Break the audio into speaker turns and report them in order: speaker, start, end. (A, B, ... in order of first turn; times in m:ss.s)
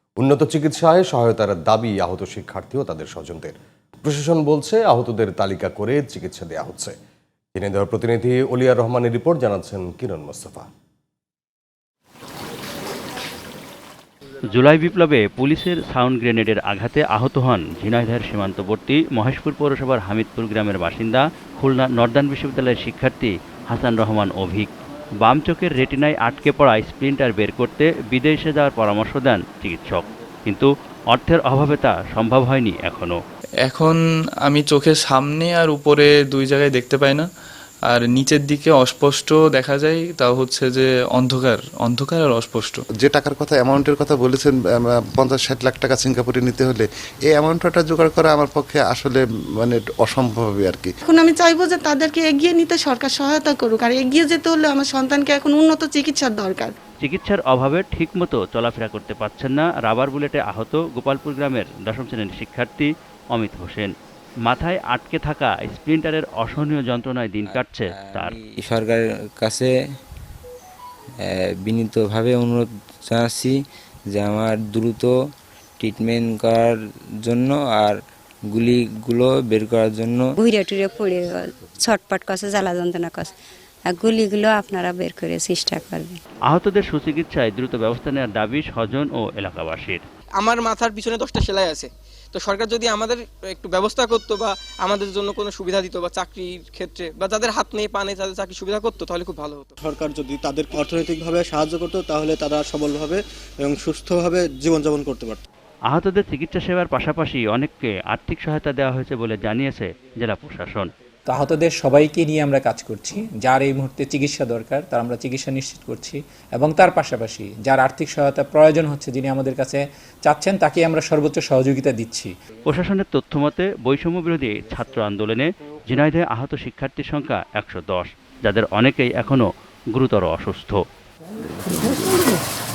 0:00.2-0:06.9 A
0:07.6-0:10.6 A
0:14.5-0:24.7 B
0:25.2-0:33.2 B
0:33.6-0:37.3 C
0:37.9-0:42.8 C
0:43.0-0:50.9 D
0:51.1-0:56.7 E
0:57.0-1:03.9 B
1:04.4-1:08.3 B
1:07.4-1:09.7 F
1:11.2-1:13.6 F
1:14.1-1:15.1 F
1:15.8-1:18.0 F
1:18.5-1:20.3 F
1:20.4-1:23.3 G
1:23.9-1:26.2 G
1:26.5-1:30.0 B
1:30.3-1:39.7 H
1:39.8-1:45.4 I
1:45.9-1:50.9 B
1:51.3-2:02.3 J
2:02.7-2:10.8 B